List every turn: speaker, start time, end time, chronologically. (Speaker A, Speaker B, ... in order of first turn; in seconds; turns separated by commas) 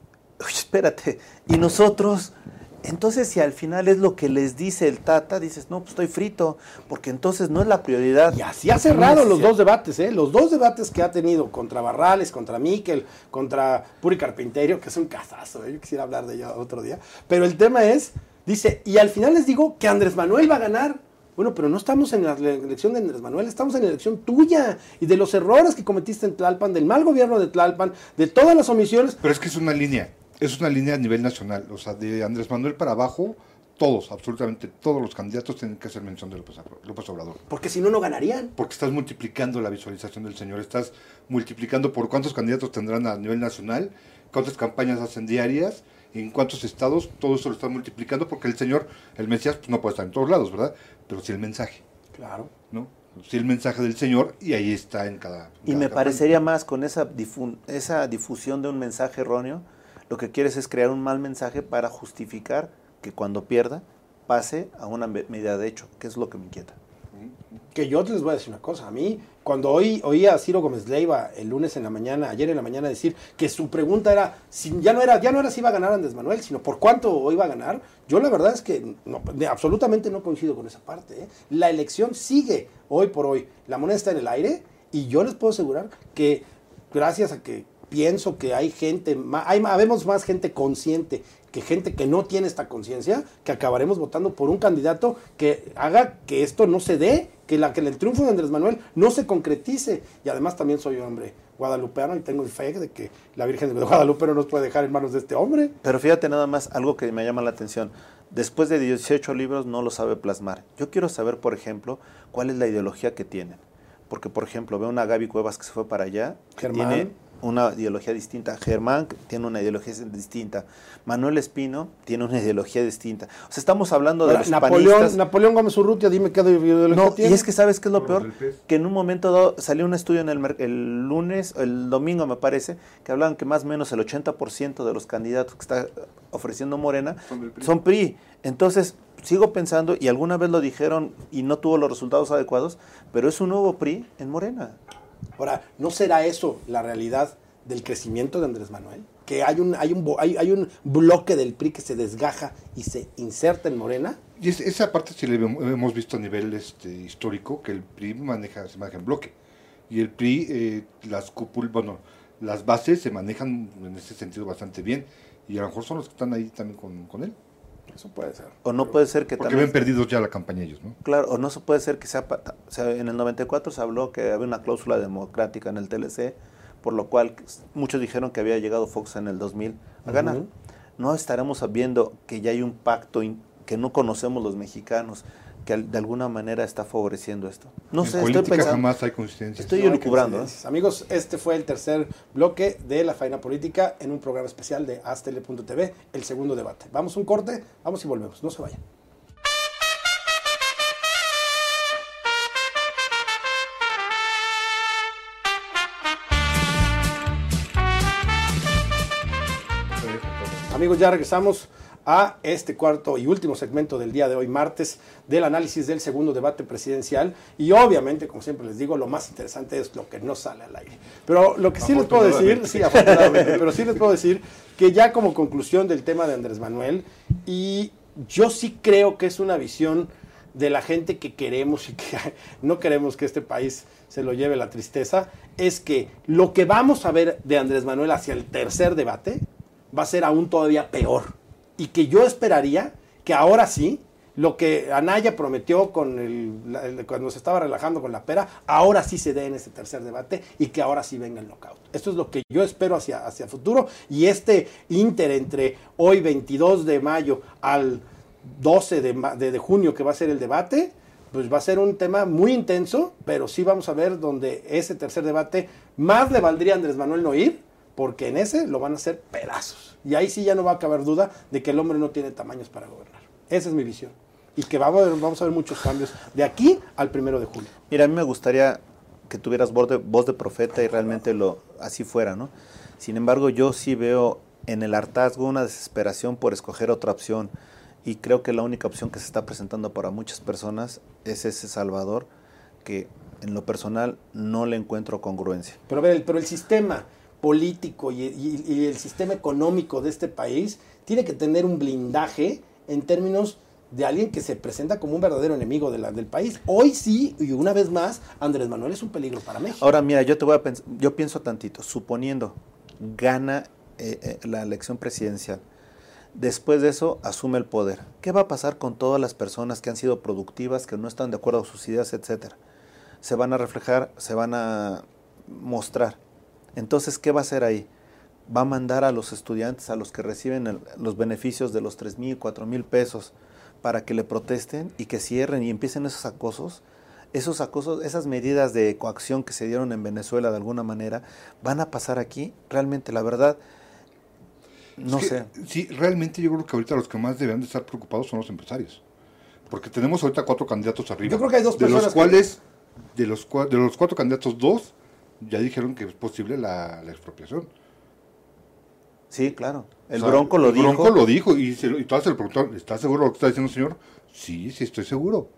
Speaker A: 0.4-8.4, Speaker B: 8.3-29.2, Speaker A: 8.9-9.5, Speaker C: 29.2-37.4, Speaker B: 37.5-38.5, Speaker C: 38.6-51.8, Speaker B: 52.2-52.5, Speaker C: 52.7-56.3, Speaker A: 55.6-66.8, Speaker B: 67.7-105.8, Speaker A: 105.8-125.2, Speaker B: 116.6-117.1, Speaker B: 124.2-127.5, Speaker A: 126.9-144.8, Speaker C: 128.0-128.6, Speaker C: 137.3-137.7, Speaker B: 145.4-154.2, Speaker C: 154.4-159.3, Speaker C: 159.9-167.4, Speaker B: 167.9-169.0, Speaker A: 168.6-169.8, Speaker C: 169.4-171.0, Speaker A: 171.0-180.4, Speaker B: 180.1-180.5, Speaker A: 181.0-188.9, Speaker C: 188.0-189.8, Speaker A: 189.6-190.5, Speaker B: 189.7-198.8, Speaker C: 209.9-210.7, Speaker B: 210.7-277.7, Speaker C: 221.8-223.9, Speaker A: 277.9-287.5, Speaker A: 288.0-292.3, Speaker A: 292.8-295.8, Speaker B: 295.9-309.8, Speaker A: 309.8-315.6, Speaker A: 316.3-322.6, Speaker A: 323.2-326.2, Speaker A: 326.8-327.9, Speaker A: 328.5-343.6, Speaker A: 345.0-345.5, Speaker C: 345.0-349.0, Speaker C: 349.7-352.6, Speaker B: 351.2-352.4, Speaker C: 353.1-357.7, Speaker A: 359.3-361.2, Speaker C: 360.1-365.5